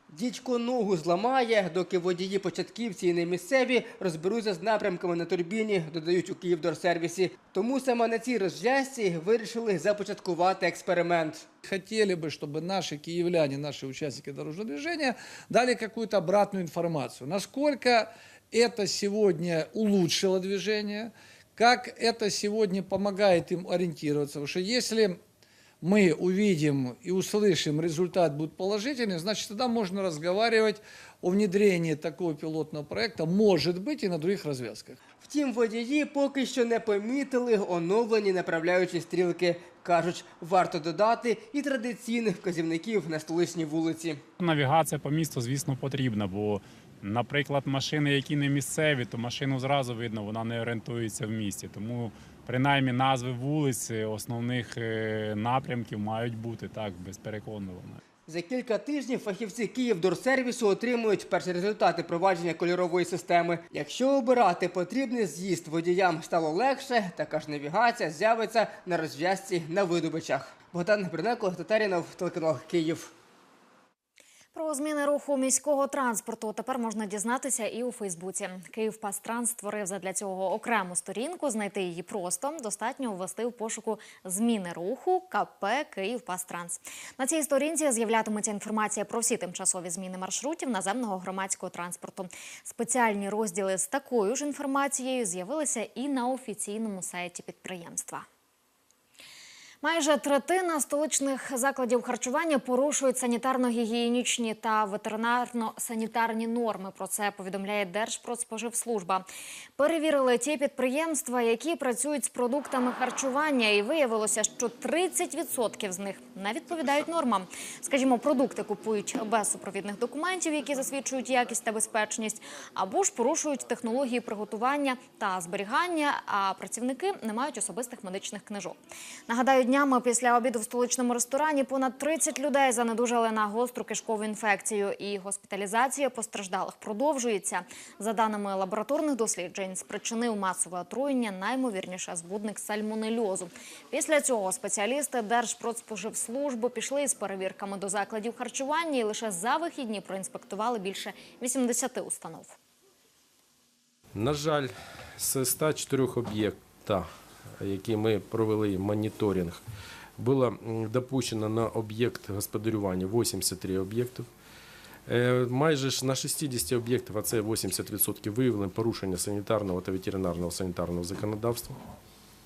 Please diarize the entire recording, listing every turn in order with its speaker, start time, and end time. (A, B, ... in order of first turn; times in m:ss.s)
0:00.1-0:11.4 A
0:11.6-0:25.2 B
0:25.8-0:35.0 B
0:35.2-0:44.2 A
0:44.4-0:58.0 C
0:58.3-1:13.1 A
1:14.5-1:38.2 D
1:39.8-1:49.2 D
1:49.8-2:08.8 D
2:09.3-2:32.6 D
2:34.1-2:37.1 E
2:37.6-2:39.6 E
2:40.2-2:44.3 E
2:45.1-2:51.8 E